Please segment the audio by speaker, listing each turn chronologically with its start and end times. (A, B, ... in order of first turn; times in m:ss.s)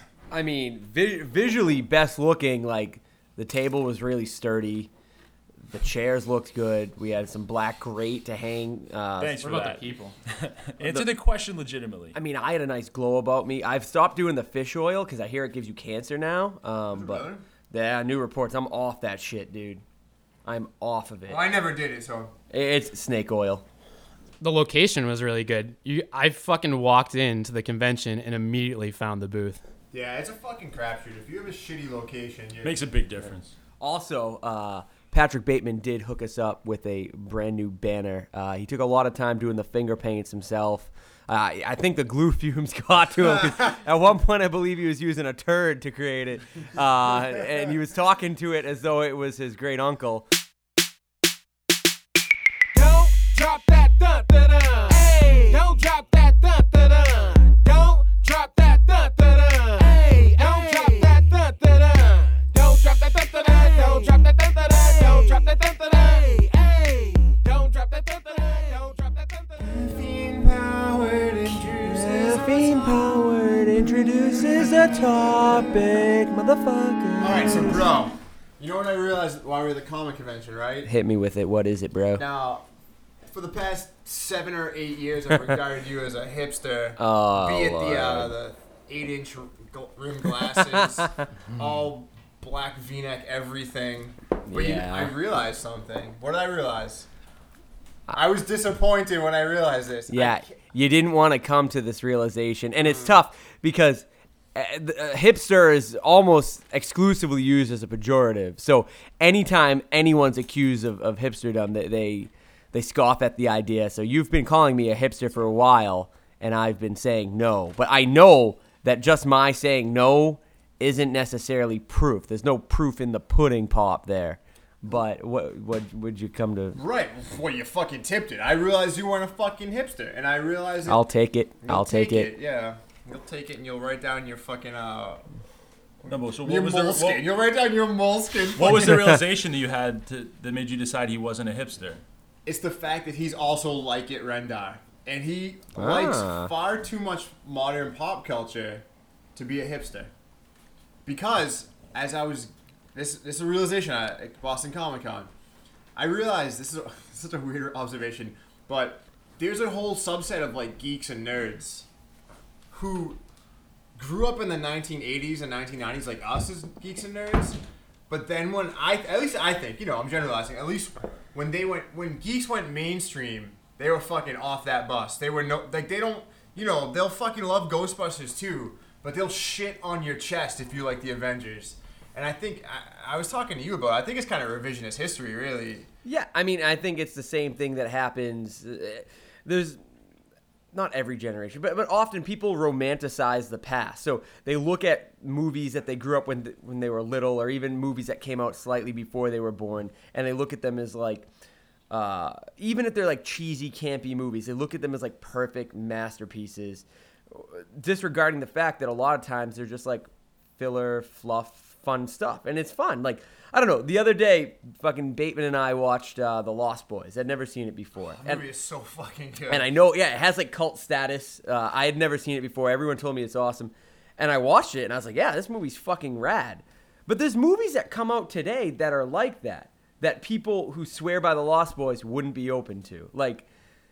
0:00.3-0:04.9 A
0:05.7-0:09.5 A
0:09.2-0:12.2 B
0:09.4-0:10.1 C
0:10.8-0:11.1 A
0:12.1-0:19.8 A
0:16.9-0:17.4 D
0:20.4-0:21.5 A
0:21.2-0:22.3 D
0:22.5-0:23.6 A
0:24.4-0:29.6 C
0:29.9-0:32.8 D
0:32.6-0:33.5 B
0:33.8-0:50.3 A
0:52.8-1:09.3 E
1:09.6-1:13.0 D
1:11.7-1:17.9 A
1:17.2-1:20.9 D
1:20.8-1:22.2 A
1:22.2-1:22.6 D
1:23.3-1:37.1 D
1:25.3-1:25.6 A
1:27.0-1:28.4 A
1:30.4-1:31.2 A
1:34.5-1:35.1 A
1:38.1-1:40.6 D
1:40.1-2:06.8 A
1:42.9-1:43.1 D
2:06.8-2:11.0 D
2:10.9-2:12.3 A
2:11.6-2:15.2 D
2:16.0-2:17.3 B
2:16.0-2:19.2 D
2:18.5-2:22.0 B
2:18.9-2:19.2 A
2:22.4-2:30.1 D
2:25.8-2:26.5 A
2:31.0-2:35.3 D
2:36.0-2:41.9 D
2:42.7-2:43.2 D
2:44.0-2:47.6 D
2:48.1-3:05.9 D
3:06.0-3:09.8 A
3:10.7-3:21.3 A
3:21.9-3:38.4 A
3:38.0-3:39.7 D
3:39.5-3:53.5 A